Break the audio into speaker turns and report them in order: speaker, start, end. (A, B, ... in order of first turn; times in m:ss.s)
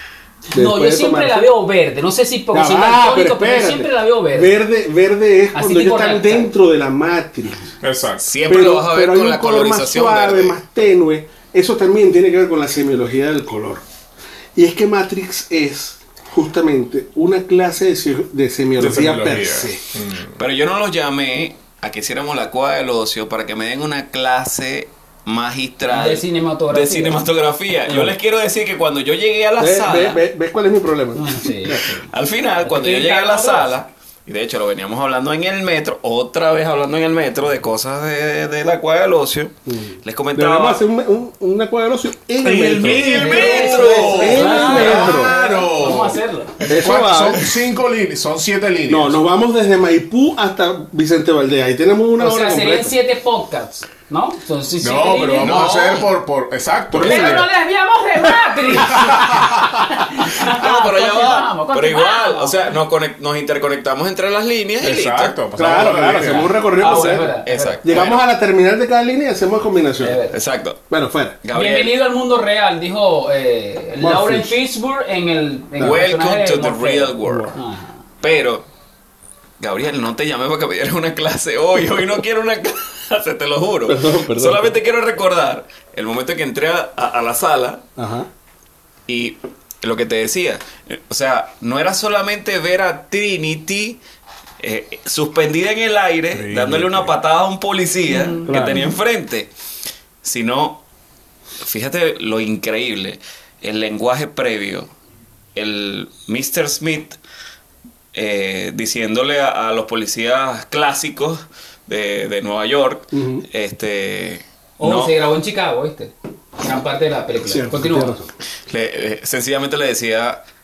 0:00.5-0:01.5 A
0:00.5-0:04.6 B
0:02.5-0:07.7 A
0:05.5-0:06.5 B
0:07.8-0:08.3 C
0:08.2-0:10.6 D
0:08.5-0:13.8 A
0:14.6-0:19.8 A
0:18.8-0:20.4 C
0:20.4-0:30.2 D
0:25.9-0:27.2 B
0:27.9-0:28.1 A
0:29.6-0:32.0 A
0:31.2-0:32.1 B
0:32.1-0:40.8 D
0:32.6-0:33.7 B
0:39.7-0:45.3 A
0:42.4-0:49.2 C
0:42.5-0:45.2 D
0:42.8-0:46.6 B
0:46.7-0:47.5 A
0:48.9-0:52.9 A
0:52.2-0:55.6 B
0:54.8-0:57.5 C
0:55.4-0:56.1 D
0:56.9-0:57.4 A
0:56.9-1:02.7 B
0:58.7-0:59.9 C
1:00.3-1:05.4 D
1:04.8-1:06.7 C
1:05.6-1:07.3 A
1:06.1-1:07.8 B
1:06.8-1:08.2 D
1:07.8-1:10.2 A
1:10.0-1:10.4 B
1:10.3-1:10.8 D
1:10.9-1:11.4 A
1:11.4-1:12.0 D
1:11.5-1:18.0 B
1:14.0-1:14.5 A
1:15.8-1:17.5 D
1:17.2-1:17.5 A
1:18.2-1:18.7 D
1:19.6-1:27.8 D
1:23.9-1:24.7 A
1:28.0-1:28.3 A
1:29.1-1:34.0 D
1:34.6-1:39.5 D
1:36.3-1:37.1 C
1:38.1-1:38.9 B
1:38.5-1:38.8 A
1:40.2-1:40.8 D
1:41.6-1:44.9 D
1:45.6-1:47.2 D
1:48.1-1:55.1 D
1:53.1-1:53.4 A
1:54.8-1:58.1 B
1:57.4-1:58.3 A
1:58.7-2:00.4 D